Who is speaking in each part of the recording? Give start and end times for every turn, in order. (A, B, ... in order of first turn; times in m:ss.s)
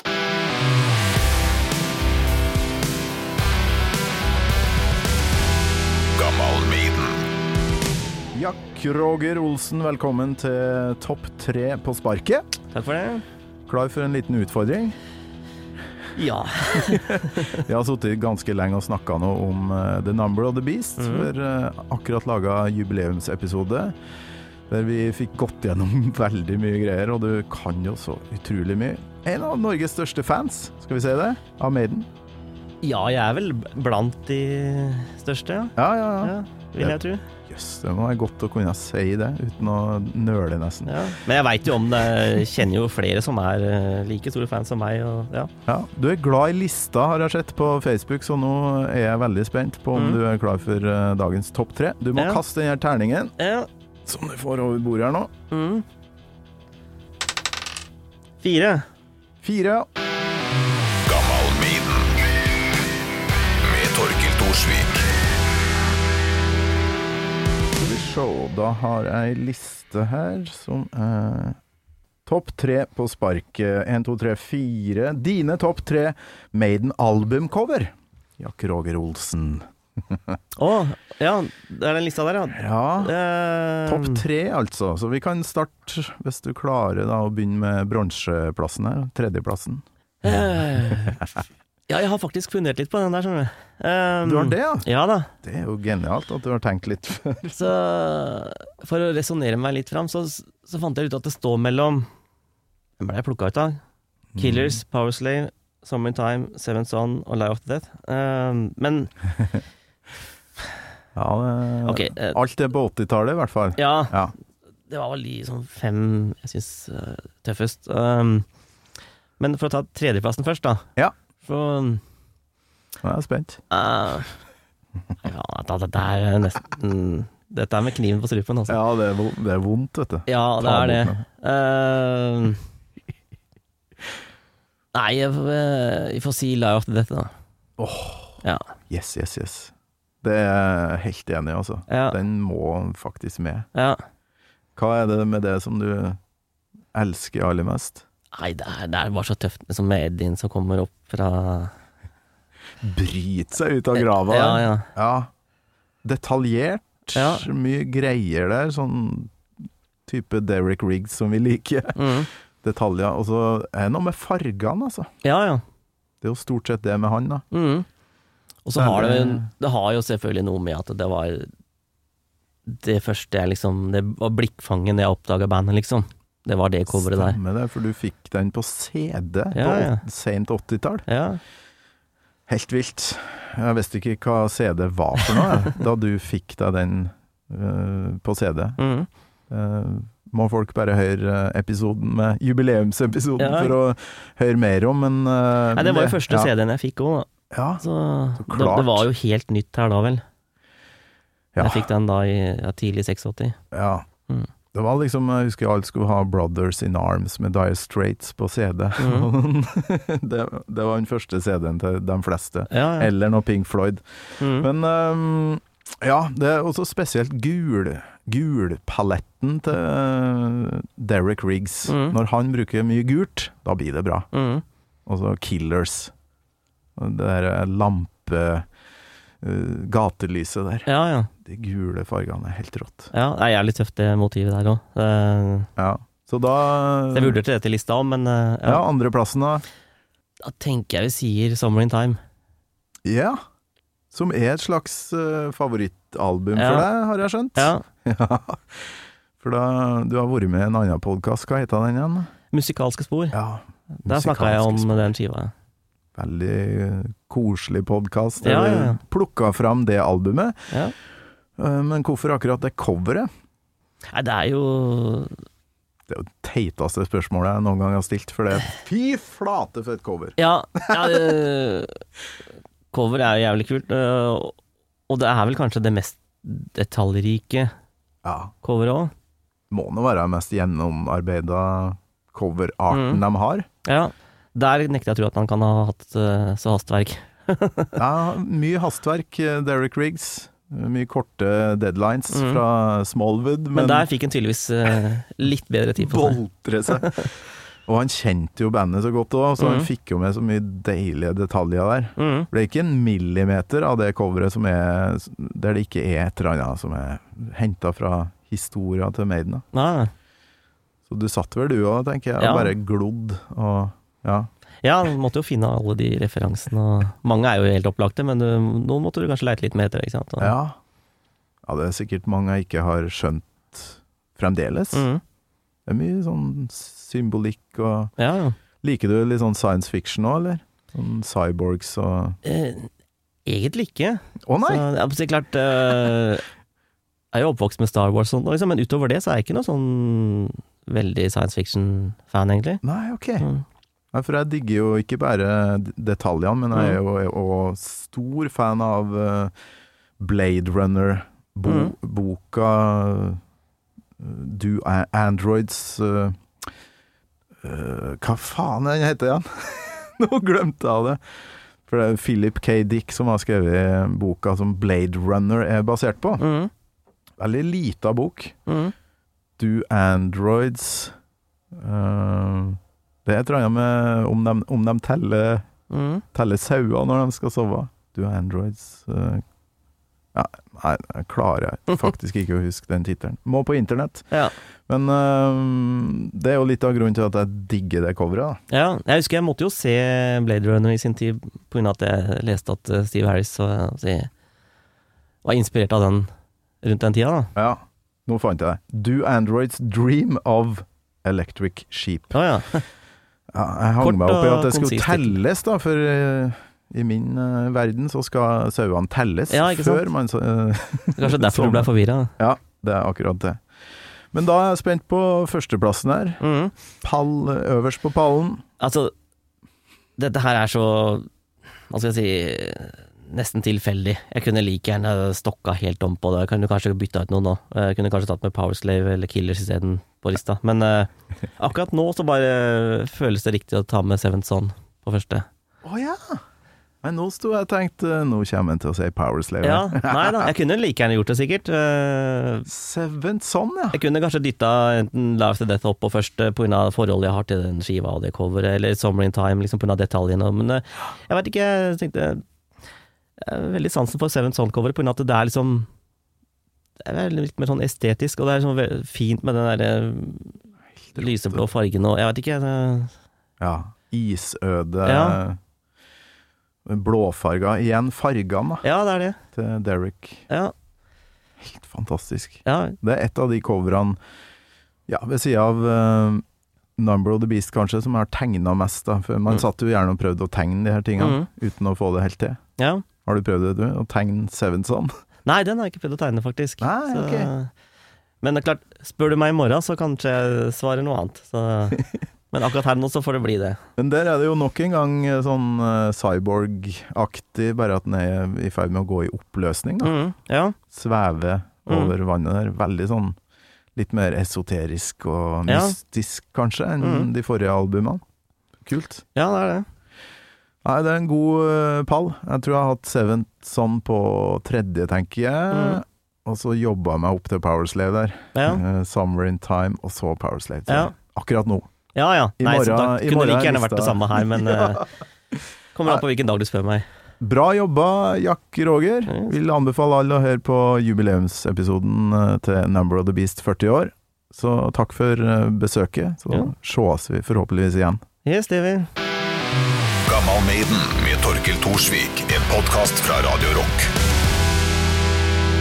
0:06.1-0:07.2 A
0:08.3-0:12.4 B
0:12.7-0:13.2 C
0:13.7-0:15.0 B
0:16.1-0:17.6 C
0:16.9-0:23.9 B
0:21.0-0:21.3 C
0:24.7-0:32.1 B
0:32.8-0:37.2 C
0:35.8-0:41.1 B
0:40.8-0:45.5 C
0:45.6-0:53.3 B
0:49.9-0:50.2 C
0:52.2-0:52.4 C
0:53.4-0:53.7 C
0:54.0-0:55.3 B
0:55.5-0:55.8 C
0:58.4-0:58.8 C
0:59.4-0:59.8 B
1:01.0-1:02.1 A
1:03.6-1:05.1 A
1:07.7-1:11.6 B
1:12.2-1:20.4 B
1:20.6-1:24.2 C
1:22.6-1:23.1 B
1:23.8-1:29.8 B
1:30.2-1:31.2 C
1:31.9-1:35.3 C
1:34.2-1:34.9 B
1:35.4-1:37.6 B
1:37.5-1:42.1 C
1:43.0-1:43.8 C
1:44.3-1:44.8 B
1:44.4-1:49.3 C
1:51.1-1:54.3 B
1:51.8-1:52.4 C
1:53.8-1:54.2 C
1:54.9-1:58.4 C
1:59.4-2:00.8 C
2:01.4-2:02.0 C
2:03.0-2:03.6 B
2:03.7-2:04.3 C
2:05.2-2:08.8 C
2:08.7-2:11.2 B
2:10.3-2:12.6 C
2:14.9-2:17.3 C
2:17.8-2:23.7 B
2:21.9-2:22.2 C
2:23.7-2:24.0 C
2:24.8-2:26.2 B
2:26.9-2:28.0 B
2:28.3-2:31.7 C
2:32.8-2:35.3 B
2:34.0-2:34.9 C
2:36.0-2:39.4 B
2:37.1-2:37.5 C
2:40.0-2:45.1 B
2:42.0-2:42.3 C
2:45.2-2:45.6 C
2:46.2-2:47.4 B
2:47.5-2:47.8 C
2:48.6-2:51.5 C
2:48.7-2:49.5 B
2:52.7-2:57.4 C
2:56.9-3:01.0 B
2:59.5-3:00.0 C
3:01.1-3:01.4 C
3:02.5-3:08.8 B
3:08.8-3:09.1 C
3:09.5-3:16.5 B
3:13.4-3:13.7 C
3:15.7-3:17.3 C
3:17.5-3:17.8 B
3:17.8-3:20.2 C
3:18.4-3:19.1 B
3:21.5-3:21.9 B
3:21.6-3:23.6 C
3:23.7-3:24.0 B
3:24.7-3:44.3 B
3:29.0-3:29.3 C
3:32.7-3:33.1 C
3:34.4-3:34.7 C
3:41.9-3:42.2 C
3:44.3-3:44.6 C
3:45.1-3:46.1 B
3:47.0-3:48.6 B
3:49.4-3:53.1 B
3:50.8-3:51.3 C
3:53.1-3:55.7 C
3:55.8-3:57.4 B
3:57.1-3:58.8 C
3:58.6-3:59.6 B
4:00.4-4:02.2 C
4:03.0-4:03.4 B
4:04.1-4:12.3 B
4:06.6-4:06.9 C
4:07.6-4:07.8 C
4:12.5-4:13.4 C
4:13.3-4:15.1 B
4:14.0-4:15.5 C
4:16.2-4:20.6 B
4:18.4-4:19.0 C
4:21.6-4:23.3 B
4:24.1-4:25.4 C
4:26.1-4:31.3 B
4:30.4-4:31.9 C
4:32.9-4:34.6 C
4:35.1-4:37.7 C
4:38.2-4:38.5 B
4:38.6-4:39.1 C
4:39.7-4:43.7 B
4:42.9-4:43.2 C
4:43.8-4:48.0 C
4:48.0-4:54.0 B
4:52.3-4:52.6 C
4:53.7-4:57.3 C
4:56.0-4:57.3 B
4:57.9-5:09.6 B
4:59.6-4:59.9 C
5:02.2-5:02.5 C
5:09.7-5:10.1 C
5:11.1-5:14.5 B
5:12.4-5:12.7 C
5:14.8-5:20.5 C
5:20.4-5:20.8 B
5:21.6-5:25.0 B
5:24.9-5:25.2 C
5:25.8-5:28.1 B
5:28.2-5:28.6 C
5:28.8-5:32.4 B
5:32.4-5:32.9 C
5:33.4-5:36.4 C
5:34.4-5:34.9 B
5:37.3-5:42.8 C
5:42.8-5:43.4 B
5:44.1-5:49.5 B
5:50.2-5:53.4 B
5:51.7-5:51.9 C
5:54.2-5:56.4 B
5:57.6-6:01.2 B
6:01.9-6:06.4 B
6:06.4-6:06.7 C
6:07.4-6:08.6 B
6:08.7-6:08.9 C
6:09.6-6:11.1 B
6:11.7-6:15.6 B
6:15.9-6:16.2 C
6:16.3-6:19.4 B
6:20.3-6:24.3 B
6:24.9-6:28.6 B
6:28.7-6:34.3 C
6:35.4-6:36.3 C
6:36.8-6:37.5 C
6:37.5-6:42.4 B
6:42.3-6:42.8 C
6:43.5-6:53.6 B
6:44.0-6:45.4 C
6:49.5-6:50.1 C
6:51.2-6:52.3 C
6:54.3-6:56.4 B
6:56.4-6:56.7 C
6:57.0-6:58.6 B
6:58.8-6:59.1 C
7:00.2-7:01.3 C
7:01.9-7:15.4 C
7:15.8-7:16.4 B
7:17.0-7:20.5 B
7:19.6-7:22.7 C
7:22.7-7:24.0 B
7:23.9-7:32.4 C
7:33.4-7:35.9 C
7:37.0-7:40.6 C
7:41.1-7:41.6 B
7:41.2-7:43.1 C
7:43.6-7:45.6 B
7:45.0-7:45.4 C
7:46.8-7:48.8 B
7:48.8-7:49.4 C
7:49.5-7:50.4 B
7:51.6-7:54.2 B
7:52.6-7:53.0 C
7:55.1-7:56.4 B
7:57.0-8:02.6 B
8:01.2-8:01.5 C
8:02.8-8:03.0 C
8:03.2-8:05.1 B
8:05.4-8:07.7 C
8:06.8-8:07.5 B
8:08.4-8:13.8 C
8:14.0-8:20.1 B
8:20.0-8:20.8 C
8:20.9-8:23.3 B
8:24.0-8:28.2 B
8:25.7-8:26.0 C
8:27.0-8:27.3 C
8:28.8-8:29.2 B
8:29.3-8:29.8 C
8:30.8-8:41.9 B
8:35.7-8:36.0 C
8:38.5-8:38.8 C
8:40.9-8:41.1 C
8:42.1-8:45.1 C
8:42.6-8:45.0 B
8:45.9-8:47.0 C
8:47.4-8:58.2 B
8:49.3-8:49.5 C
8:58.4-8:59.1 C
9:00.2-9:04.1 A